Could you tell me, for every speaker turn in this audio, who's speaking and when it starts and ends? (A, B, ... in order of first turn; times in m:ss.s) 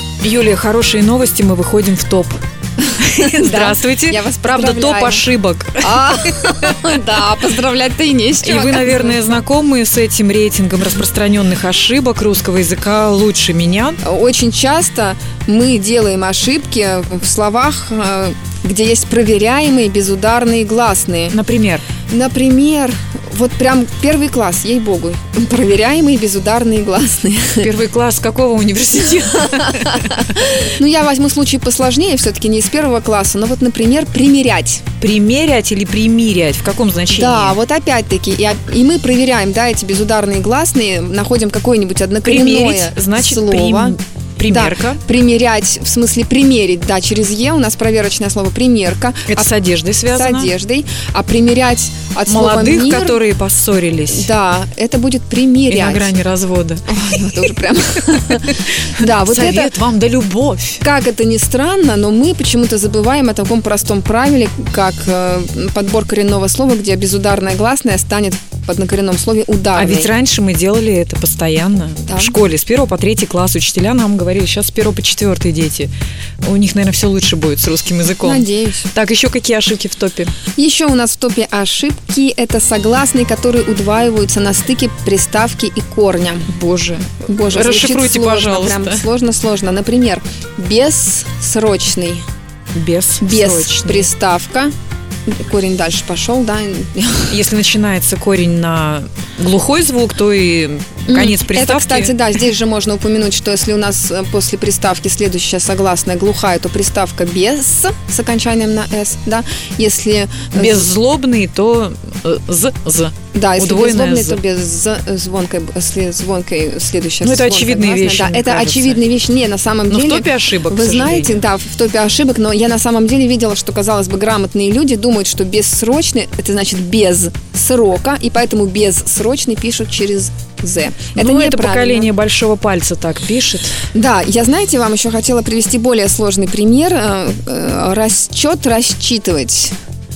0:00.2-0:02.4 A
0:03.0-0:06.8 A
0:03.0-0:05.3 B
0:05.8-0:09.2 B
0:08.4-0:14.0 A
0:14.0-0:21.4 B
0:21.3-0:21.9 A
0:22.1-0:27.7 B
0:27.6-0:30.6 A
0:30.6-0:34.8 B
0:35.0-0:37.6 A
0:37.1-0:49.5 B
0:42.2-0:45.0 A
0:49.3-0:50.5 A
0:50.1-0:53.2 B
0:52.2-0:54.3 A
0:54.1-0:56.1 B
0:55.7-0:57.5 A
0:56.9-0:59.7 B
0:58.3-1:00.8 A
1:00.8-1:10.1 B
1:09.7-1:15.9 A
1:12.1-1:12.4 B
1:16.4-1:20.3 A
1:18.3-1:18.9 B
1:20.6-1:26.5 B
1:26.5-1:29.0 A
1:27.2-1:32.2 B
1:32.7-1:34.1 A
1:33.2-1:34.7 B
1:35.3-1:37.4 B
1:37.3-1:42.2 A
1:41.1-1:50.9 B
1:50.5-1:54.4 A
1:53.3-2:12.1 B
1:57.2-1:59.0 A
1:59.9-2:01.4 A
2:11.1-2:13.8 A
2:13.9-2:19.7 B